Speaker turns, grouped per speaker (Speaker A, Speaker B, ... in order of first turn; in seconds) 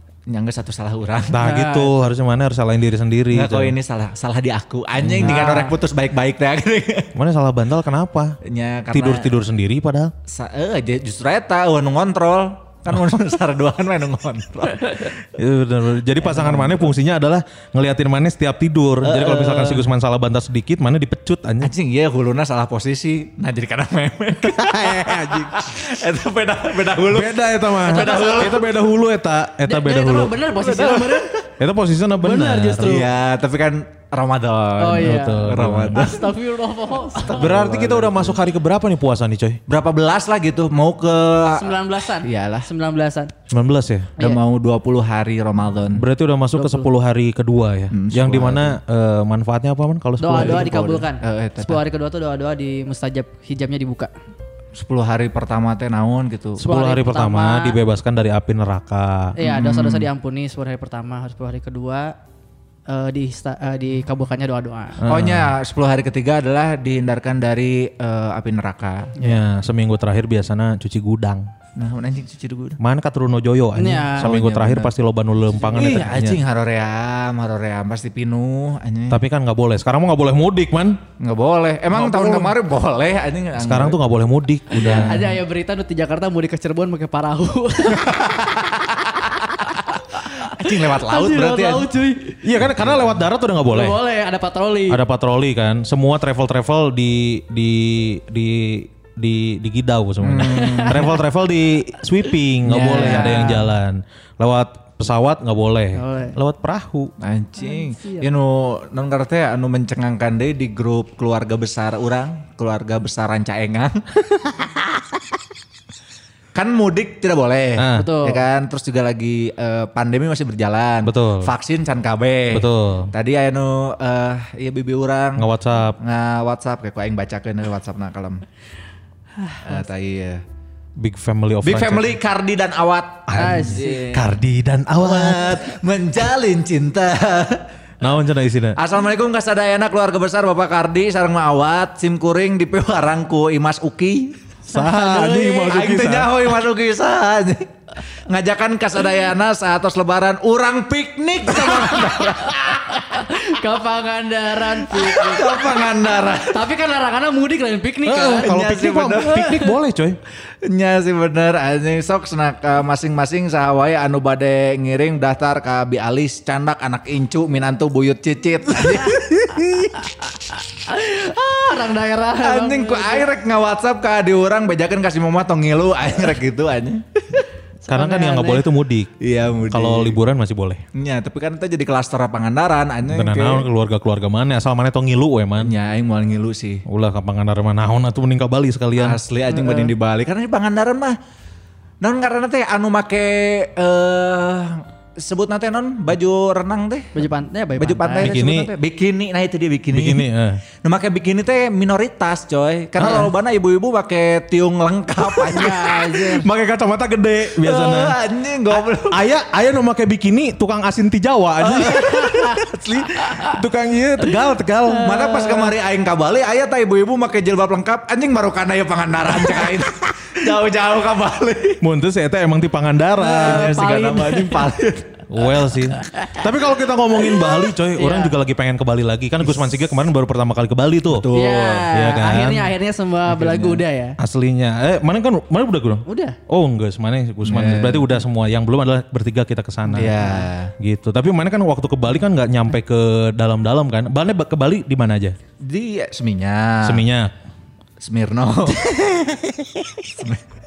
Speaker A: 0.3-1.4, 3.3-7.1, 8.4-9.3, 10.3-15.1, 16.2-16.9, 19.0-19.9, 21.6-28.7, 30.6-31.2, 32.8-36.3, 37.1-38.4, 39.7-41.7, 42.2-42.7, 44.2-46.0, 47.9-48.8, 50.3-51.8, 54.8-56.6, 59.4-60.1, 65.1-69.1, 71.8-72.8, 74.2-74.9, 75.7-79.2, 81.2-84.0, 84.7-85.3, 88.0-88.8, 90.4-91.9, 92.5-93.2, 100.2-101.1, 102.9-103.3, 107.2-114.0, 116.5-125.5, 126.0-128.4, 129.6-130.4, 131.6-134.4, 135.0-137.7, 138.8-147.7, 148.3-153.0, 154.9-156.7, 158.1-159.5, 160.7-170.0, 172.4-177.4, 179.2-180.2, 180.9-183.7, 185.6-186.8, 188.9-191.2, 192.0-197.1, 197.8-200.2, 200.8-206.0, 207.6-209.2, 211.6-213.2, 215.0-221.8, 223.2-225.2, 231.1-231.9, 233.3-233.8, 237.4-238.2, 239.9-240.7, 245.6-247.0, 248.0-250.4
Speaker B: 1.3-3.8, 5.0-5.5, 7.2-8.4, 8.9-10.1, 15.3-21.7, 24.4-25.7, 27.1-30.4, 31.6-33.0, 34.9-36.1, 37.3-39.6, 43.5-44.1, 45.9-50.7, 56.6-59.3, 65.0-65.5, 69.2-71.5, 72.8-76.4, 79.1-81.0, 81.9-82.5, 83.6-85.3, 92.4-94.0, 94.9-107.1, 117.8-118.1, 121.0-121.5, 122.5-123.1, 125.4-126.0, 131.0-132.2, 133.3-135.6, 138.0-138.8, 144.7-146.5, 158.1-160.2, 177.9-179.1, 179.7-180.8, 183.1-185.7, 186.9-189.2, 198.2-198.7, 199.9-200.6, 203.0-203.3, 205.7-208.2, 208.7-215.2, 221.8-223.8, 225.3-231.3, 231.9-232.7, 234.2-245.3, 246.8-247.3
Speaker C: 1.3-1.9, 5.2-5.8, 27.9-28.6, 29.6-31.5, 32.2-33.0, 34.8-37.5, 41.5-43.3, 46.5-46.9, 50.2-54.1, 56.6-57.8, 59.4-62.1, 62.9-65.0, 73.7-74.3, 75.8-76.0, 84.7-88.6, 90.1-92.4, 93.7-95.0, 100.5-100.9, 102.6-103.7, 105.9-106.4, 107.6-108.3, 117.9-118.4, 129.4-129.8, 133.4-134.0, 144.7-145.4, 152.7-155.8, 156.5-158.5, 159.3-159.7, 170.5-173.3, 177.8-178.7, 189.5-189.9, 197.1-198.3, 205.5-206.5, 214.9-215.7, 223.4-224.7, 228.0-228.4, 231.3-234.2, 236.1-236.4, 239.9-240.5